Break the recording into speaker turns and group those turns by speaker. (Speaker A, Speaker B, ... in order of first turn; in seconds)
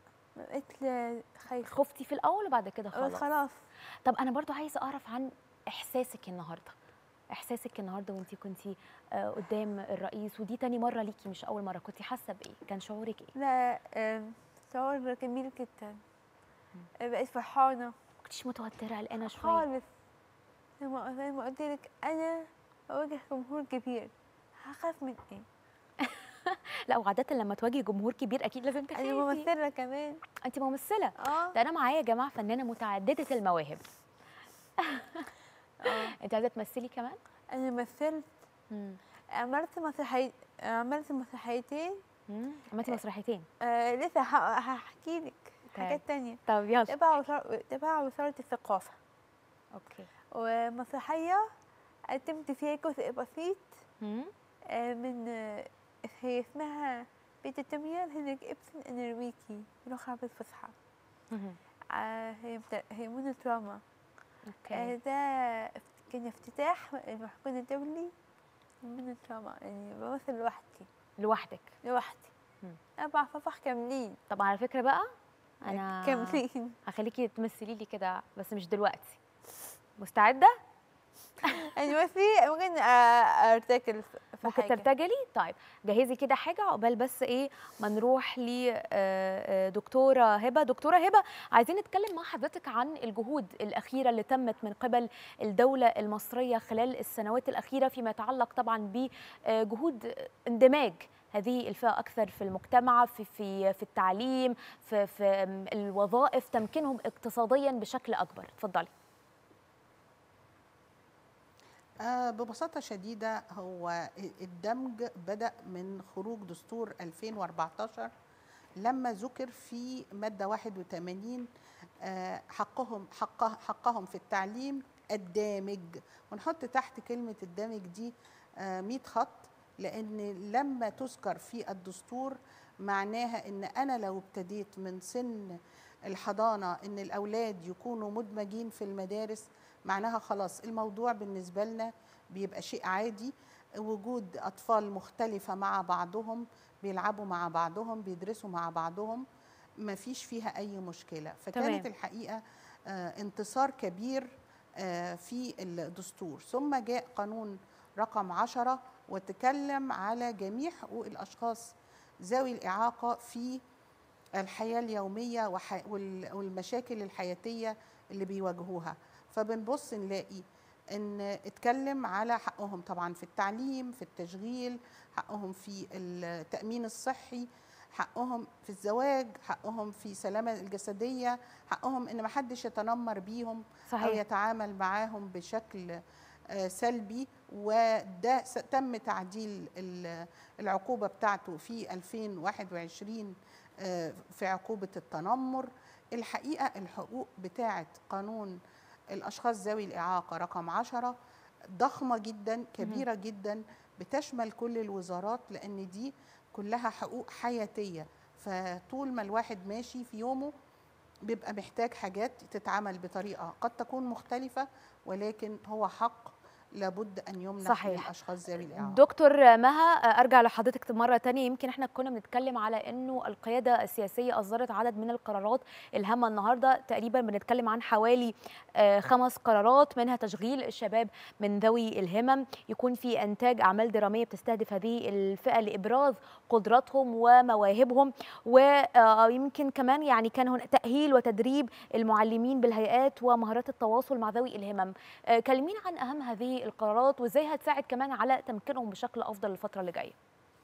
Speaker A: 0.4-1.7, 2.9-3.6, 13.4-16.0, 17.0-17.9, 19.2-19.9, 20.8-24.1, 24.6-25.4, 28.9-30.2, 31.2-31.5, 35.9-36.1, 37.5-38.3, 39.4-42.0, 43.6-49.0, 50.4-51.4, 52.1-53.7, 54.7-60.7, 61.9-63.8, 64.7-68.1, 68.8-70.9, 71.8-72.3, 73.0-74.2, 75.7-76.7, 81.7-84.8
Speaker B: 1.6-3.2, 4.0-6.7, 7.3-13.3, 18.2-19.6, 26.0-29.5, 30.4-33.8, 34.9-35.3, 35.9-37.2, 38.7-39.0, 42.3-43.5, 45.7-47.0, 49.7-50.1, 54.0-54.3, 61.3-61.6, 64.5-64.9, 71.2-71.7, 74.3-75.1, 75.6-79.2, 80.0-80.5, 84.4-108.9, 151.5-151.9, 183.9-184.2, 217.6-218.1, 218.8-250.2
Speaker C: 112.0-118.1, 118.8-121.5, 122.0-135.5, 136.1-149.2, 149.8-161.7, 162.2-163.6, 164.4-186.0, 186.5-198.6, 199.1-201.2, 201.8-210.5, 211.3-219.0